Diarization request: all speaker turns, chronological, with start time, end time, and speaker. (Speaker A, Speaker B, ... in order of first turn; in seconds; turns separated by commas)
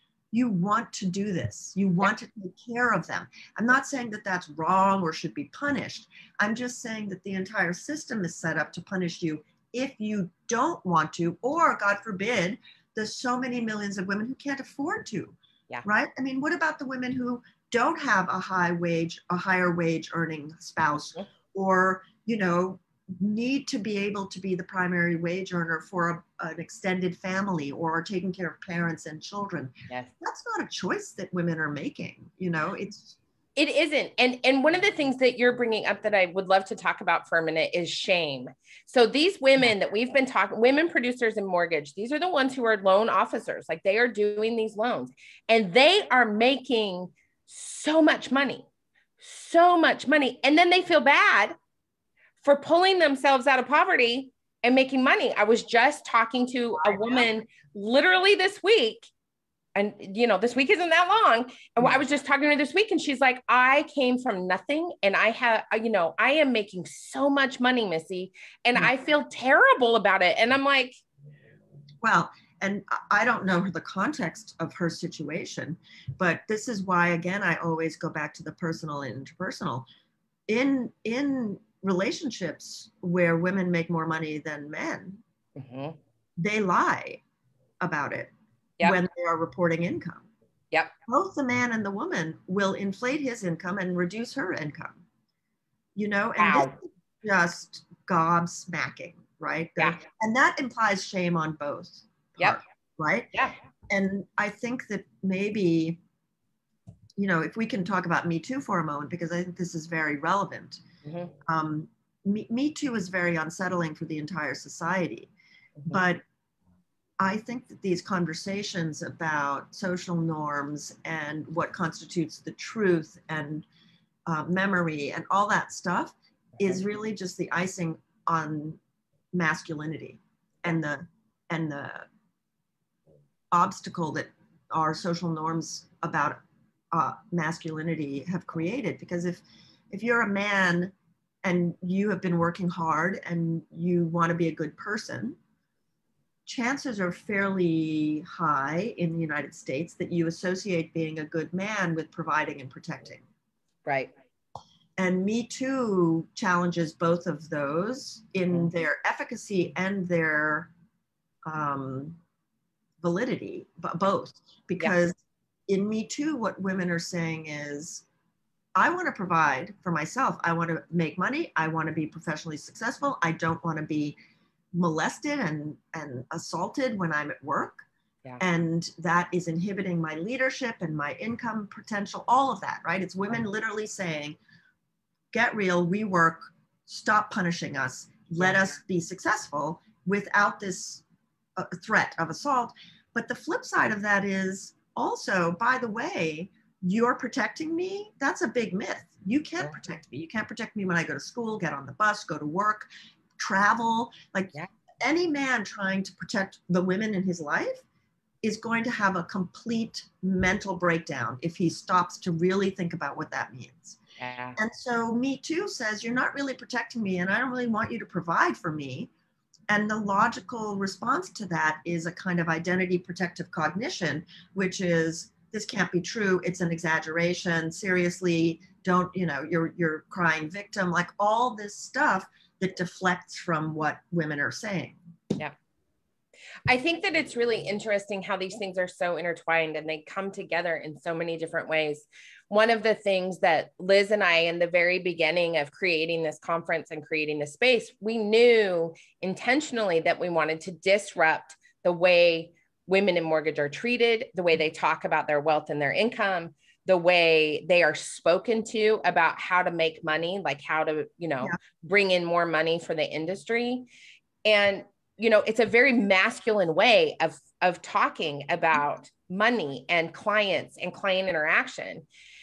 Speaker A: 0.3-33.2, Speaker B: 29.9-30.1, Speaker B: 33.6-48.6, Speaker B: 49.2-51.5, Speaker B: 52.4-59.1, Speaker A: 56.8-57.3, Speaker B: 59.7-71.0, Speaker A: 72.0-79.8, Speaker A: 80.5-85.2, Speaker B: 85.5-86.0, Speaker A: 86.4-87.2, Speaker A: 87.8-90.2, Speaker A: 91.1-95.0, Speaker A: 96.0-103.3, Speaker B: 96.4-96.7, Speaker A: 103.9-106.0, Speaker A: 107.2-110.8, Speaker B: 111.0-111.3, Speaker A: 111.4-115.3, Speaker A: 115.9-116.2, Speaker A: 117.2-123.7, Speaker A: 124.3-128.8, Speaker A: 129.3-132.1, Speaker A: 133.5-136.4, Speaker A: 136.9-145.4, Speaker A: 146.5-153.2, Speaker B: 153.8-154.1, Speaker A: 155.0-160.7, Speaker A: 161.5-162.2, Speaker A: 163.0-168.0, Speaker A: 168.8-174.1, Speaker A: 174.7-177.8, Speaker A: 178.4-184.4, Speaker A: 185.3-191.0, Speaker A: 191.6-207.8, Speaker A: 208.4-214.0, Speaker B: 214.2-214.6, Speaker A: 214.6-219.1, Speaker A: 219.7-235.0, Speaker B: 236.7-263.9, Speaker B: 264.4-272.0